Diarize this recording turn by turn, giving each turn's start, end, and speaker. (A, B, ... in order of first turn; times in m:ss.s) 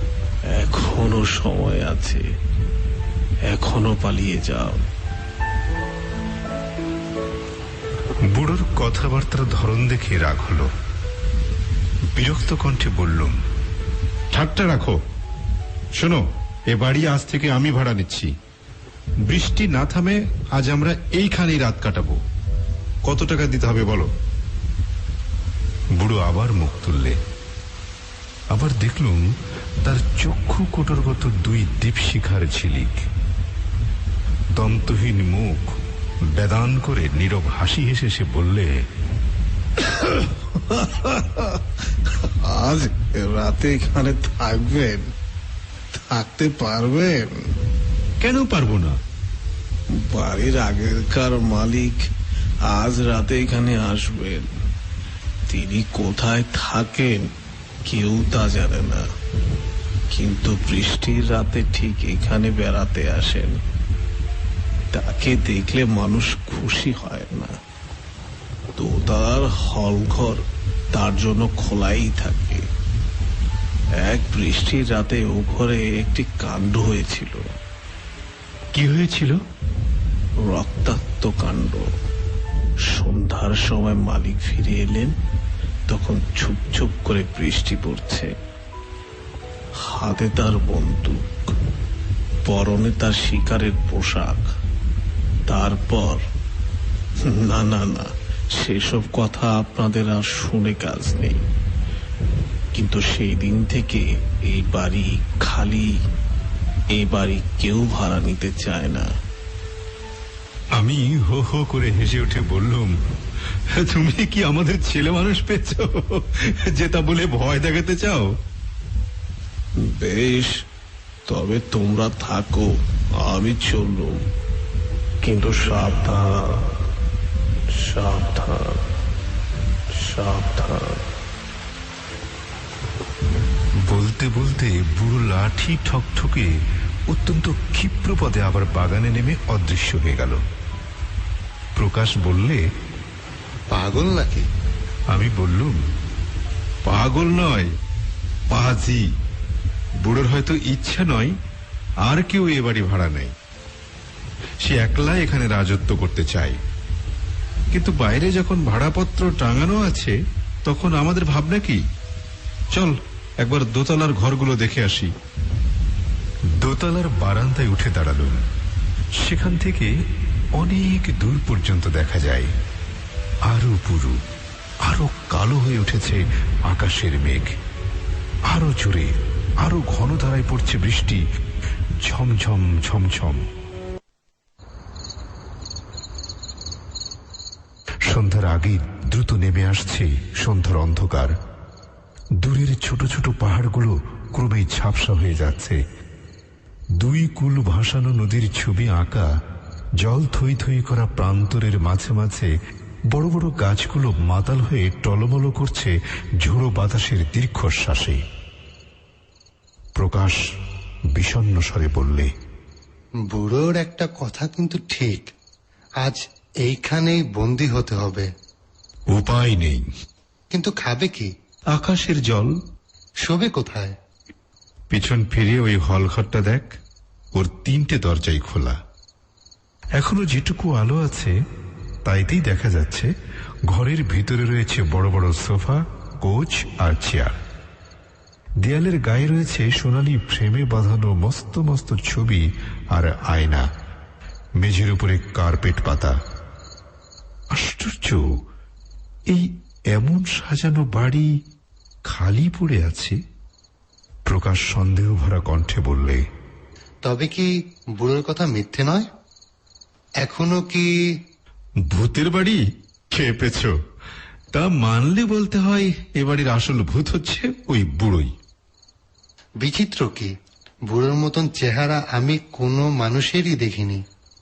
0:00.5-0:02.2 A
0:03.5-0:04.8 A
0:08.3-0:10.7 B
0:12.1-0:13.4 B
0:14.3-0:15.0 B
0:16.0-0:18.3 B
0:19.2-0:22.2 B
0:23.0-0:24.1 B
0:26.0-0:27.2 B
0:28.5-0:29.2 B
0:29.8-0:33.0 B
0:34.5-0:38.7 B
0:39.8-0:45.1 A
0:45.9-0:47.3 A
0:48.2-0:49.0 B
0:49.9-0:52.0 A
0:52.7-0:54.5 A
0:55.5-0:57.2 A
0:57.8-0:59.0 A
1:00.1-1:03.6 A
1:04.9-1:07.5 A
1:08.8-1:10.4 A
1:10.9-1:12.6 A
1:14.0-1:17.4 A
1:18.7-1:19.4 B
1:20.4-1:21.8 A
1:22.9-1:25.1 A
1:25.9-1:28.3 A
1:29.8-1:31.5 A
1:32.4-1:34.4 A
1:35.5-1:36.2 A
1:37.2-1:41.4 A
1:42.7-1:45.9 A
1:46.9-1:49.1 A
1:50.8-1:52.9 B
1:53.7-1:58.3 B
1:59.8-2:00.5 A
2:01.2-2:02.7 A
2:03.2-2:04.2 A
2:05.2-2:06.7 A
2:07.7-2:08.8 A
2:09.9-2:11.0 A
2:13.9-2:16.5 B
2:17.1-2:20.4 B
2:21.8-2:22.6 B
2:23.7-2:24.4 C
2:25.1-2:25.8 B
2:26.8-2:27.7 B
2:28.5-2:29.0 B
2:30.0-2:31.3 B
2:32.1-2:33.3 B
2:34.6-2:36.6 B
2:37.7-2:41.8 B
2:42.7-2:45.1 B
2:46.6-2:48.4 B
2:49.2-2:49.9 B
2:50.6-2:52.5 B
2:53.5-2:54.2 B
2:54.8-2:57.5 B
2:58.5-3:01.2 B
3:02.0-3:03.4 B
3:08.1-3:11.3 B
3:12.4-3:15.8 B
3:17.0-3:19.3 B
3:20.0-3:22.5 B
3:23.1-3:28.2 B
3:30.0-3:30.4 B
3:31.2-3:32.3 B
3:33.3-3:35.3 C
3:36.0-3:38.3 C
3:39.1-3:39.8 B
3:40.5-3:41.3 C
3:41.7-3:42.5 B
3:43.2-3:43.9 C
3:44.9-3:46.7 B
3:47.3-3:48.8 B
3:50.0-3:51.3 B
3:52.0-3:53.1 B
3:53.7-3:57.4 B
3:58.6-4:03.6 B
4:04.6-4:06.1 B
4:07.5-4:08.2 B
4:09.3-4:11.3 B
4:12.0-4:13.2 B
4:14.3-4:16.2 B
4:17.0-4:19.1 C
4:20.2-4:20.9 C
4:21.9-4:23.7 B
4:24.5-4:28.3 B
4:29.6-4:30.3 C
4:30.9-4:34.0 C